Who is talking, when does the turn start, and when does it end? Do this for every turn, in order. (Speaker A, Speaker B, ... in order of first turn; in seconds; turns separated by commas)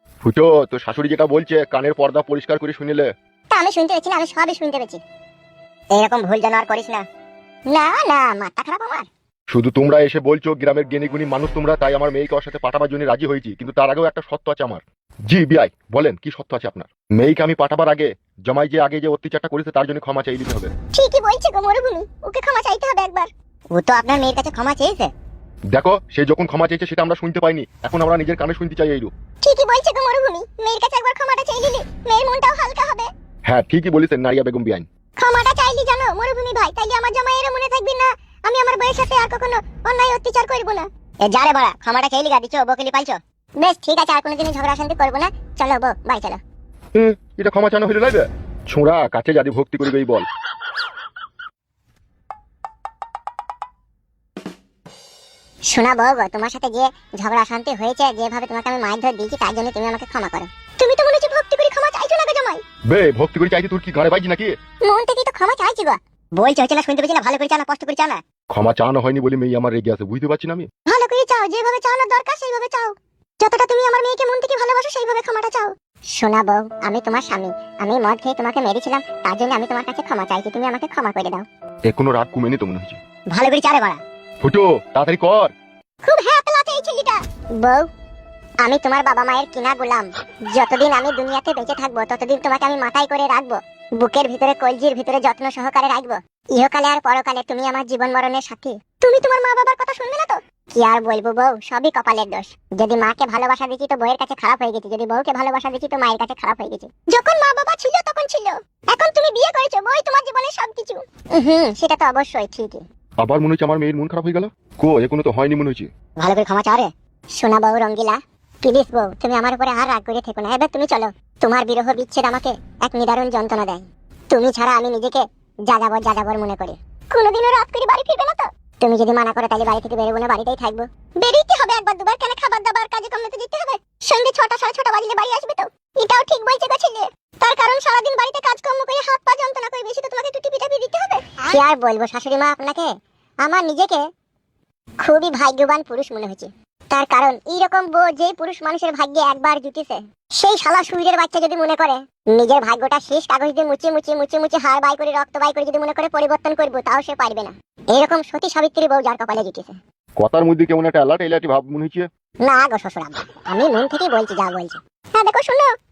Speaker A: 0.2-3.1, Speaker B: 3.5-5.0, Speaker B: 5.9-7.0, Speaker B: 7.7-9.1, Speaker A: 9.5-20.7, Speaker B: 20.9-25.1, Speaker A: 25.7-29.1, Speaker B: 29.4-33.1, Speaker A: 33.5-34.9, Speaker B: 35.2-46.4, Speaker A: 47.0-50.2, Speaker B: 55.7-62.6, Speaker A: 62.9-64.5, Speaker B: 64.8-68.2, Speaker A: 68.5-70.7, Speaker B: 70.9-81.5, Speaker A: 81.9-83.0, Speaker B: 83.3-84.0, Speaker A: 84.4-85.5, Speaker B: 86.0-87.9, Speaker B: 88.6-112.8, Speaker A: 113.2-115.9, Speaker B: 116.2-142.9, Speaker B: 143.4-144.0, Speaker B: 145.0-159.8, Speaker A: 160.2-162.1, Speaker B: 162.4-165.7